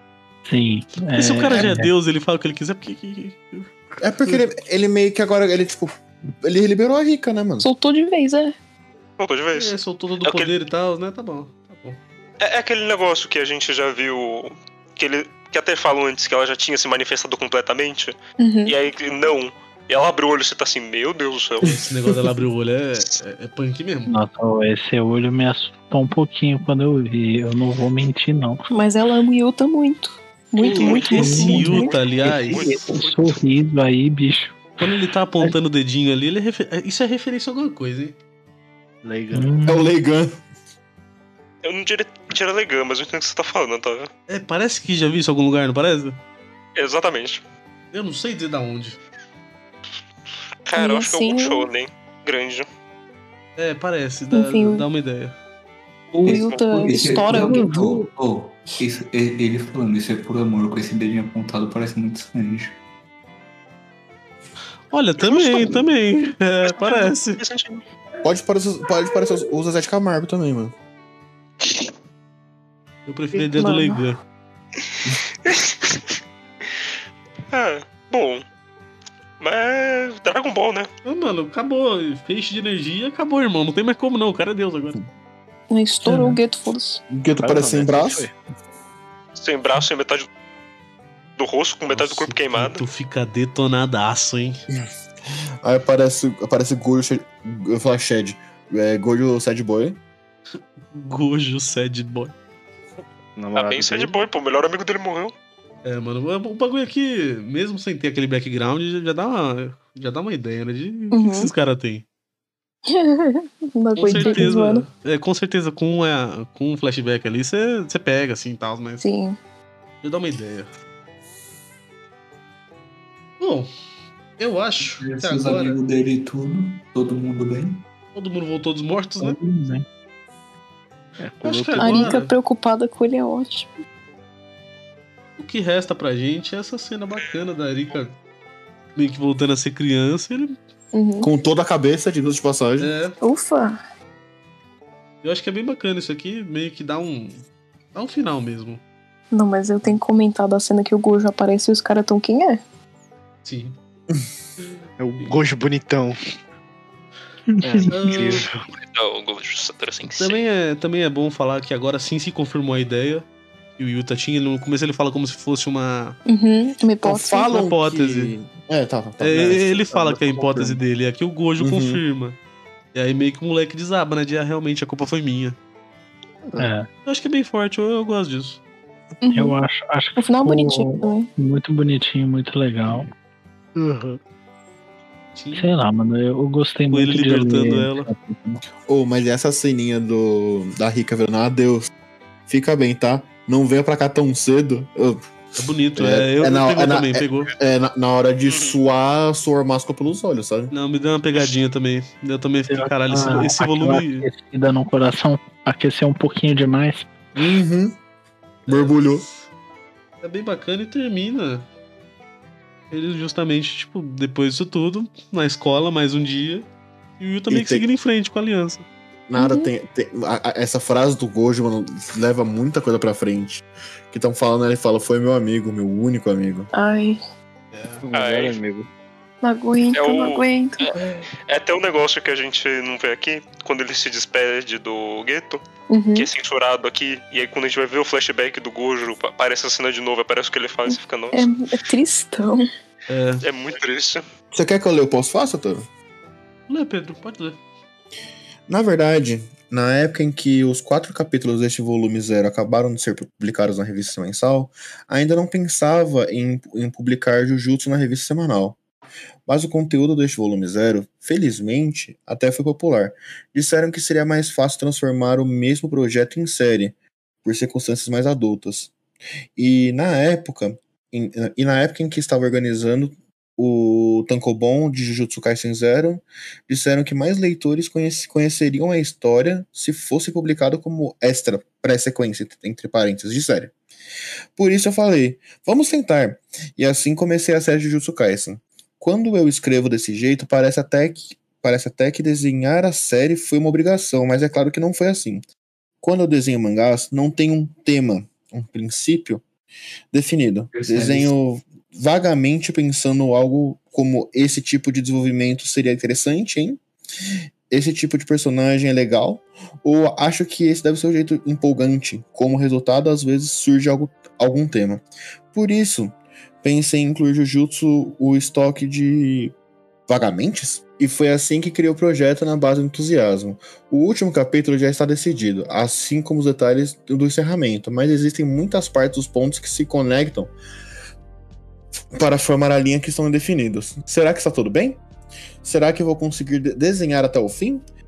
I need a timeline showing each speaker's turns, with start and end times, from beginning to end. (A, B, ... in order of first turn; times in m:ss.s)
0:00.4-0:01.9 A
0:01.2-0:04.4 B
0:04.0-0:07.7 C
0:07.6-0:08.5 D
0:09.2-0:10.5 E
0:09.5-0:12.0 B
0:12.4-0:21.8 E
0:18.4-0:18.7 D
0:21.6-0:24.1 B
0:24.1-0:28.6 A
0:28.7-0:32.0 D
0:30.6-0:31.2 E
0:30.6-0:32.6 B
0:31.1-0:34.8 A
0:31.8-0:33.4 E
0:34.8-0:38.2 B
0:39.0-0:39.5 F
0:39.3-0:39.9 A
0:39.6-0:40.3 C
0:41.6-0:44.1 E
0:44.3-0:46.2 B
0:46.8-0:47.4 E
0:47.9-0:49.0 B
0:50.7-0:52.7 E
0:50.8-0:51.7 D
0:53.6-0:55.4 B
0:54.3-0:54.8 D
0:56.1-1:02.8 G
0:56.2-0:57.6 D
0:56.4-0:56.7 E
0:57.0-0:58.0 A
1:04.9-1:07.4 B
1:05.2-1:05.8 E
1:06.6-1:07.8 E
1:08.2-1:10.7 C
1:11.6-1:11.9 E
1:13.1-1:14.2 B
1:13.4-1:14.0 D
1:15.4-1:16.1 E
1:17.5-1:18.4 E
1:19.4-1:20.9 E
1:21.0-1:25.0 B
1:25.7-1:27.0 D
1:26.0-1:26.4 A
1:27.1-1:28.3 C
1:27.4-1:28.3 F
1:29.4-1:30.3 E
1:31.4-1:32.8 E
1:31.9-1:34.6 B
1:35.6-1:40.0 C
1:40.9-1:42.3 B
1:43.4-1:44.2 F
1:43.5-1:45.3 E
1:45.8-1:52.0 B
1:51.1-1:51.5 D
1:52.9-1:54.8 D
1:54.0-1:59.0 B
1:59.0-1:59.4 D
2:00.0-2:00.7 B
2:03.4-2:03.7 B
2:04.4-2:05.8 B
2:04.8-2:07.8 G
2:08.1-2:09.4 B
2:09.2-2:09.8 A
2:11.2-2:12.2 F
2:11.4-2:12.3 B
2:11.8-2:13.7 D
2:15.4-2:18.2 B
2:19.0-2:20.6 B
2:20.9-2:21.3 D
2:21.2-2:22.9 C
2:22.8-2:23.2 B
2:23.2-2:23.8 D
2:25.2-2:28.8 B
2:29.3-2:32.6 D
2:33.4-2:33.8 B
2:35.0-2:36.2 F
2:37.5-2:38.0 A
2:37.6-2:38.6 F
2:37.9-2:38.4 B
2:38.7-2:40.4 E
2:40.1-2:43.2 B
2:43.8-2:46.2 B
2:46.3-2:47.5 D
2:47.0-2:50.7 C
2:47.4-2:48.3 B
2:49.2-2:52.4 B
2:50.0-2:50.6 F
2:51.6-2:52.0 C
2:52.9-2:55.6 B
2:56.6-2:56.9 A
2:57.0-2:58.6 B
2:59.2-2:59.5 D
2:59.3-3:03.1 A
3:00.2-3:01.3 D
3:03.8-3:04.1 F
3:05.3-3:05.7 B
3:05.5-3:08.6 A
3:06.9-3:08.1 B
3:08.8-3:11.9 C
3:12.5-3:15.2 C
3:15.6-3:17.5 B
3:16.0-3:20.7 C
3:18.5-3:18.8 E
3:20.7-3:24.2 B
3:22.7-3:27.1 A
3:27.3-3:28.0 C
3:28.6-3:29.4 B
3:28.7-3:29.2 C
3:30.2-3:31.6 B
3:32.9-3:36.7 B
3:37.2-3:38.8 B
3:37.5-3:37.9 C
3:39.3-3:46.7 C
3:39.4-3:39.7 D
3:46.7-3:47.2 D
3:47.7-3:48.0 B
3:48.0-3:48.9 F
3:48.1-3:48.6 E
3:49.4-3:50.9 D
3:49.9-3:55.6 E
3:55.9-3:56.3 D
3:56.1-4:01.5 E
4:00.9-4:02.6 D
4:03.1-4:03.4 B
4:03.4-4:04.2 E
4:04.5-4:05.8 C
4:06.7-4:07.6 B
4:08.7-4:18.8 C
4:19.4-4:28.9 C
4:29.6-4:43.7 C
4:44.6-4:55.4 C
4:56.0-4:59.4 C
5:00.1-5:06.8 C
5:00.7-5:01.3 G
5:07.7-5:19.5 C
5:20.1-5:30.5 C
5:32.1-5:35.0 C
5:35.6-5:37.8 C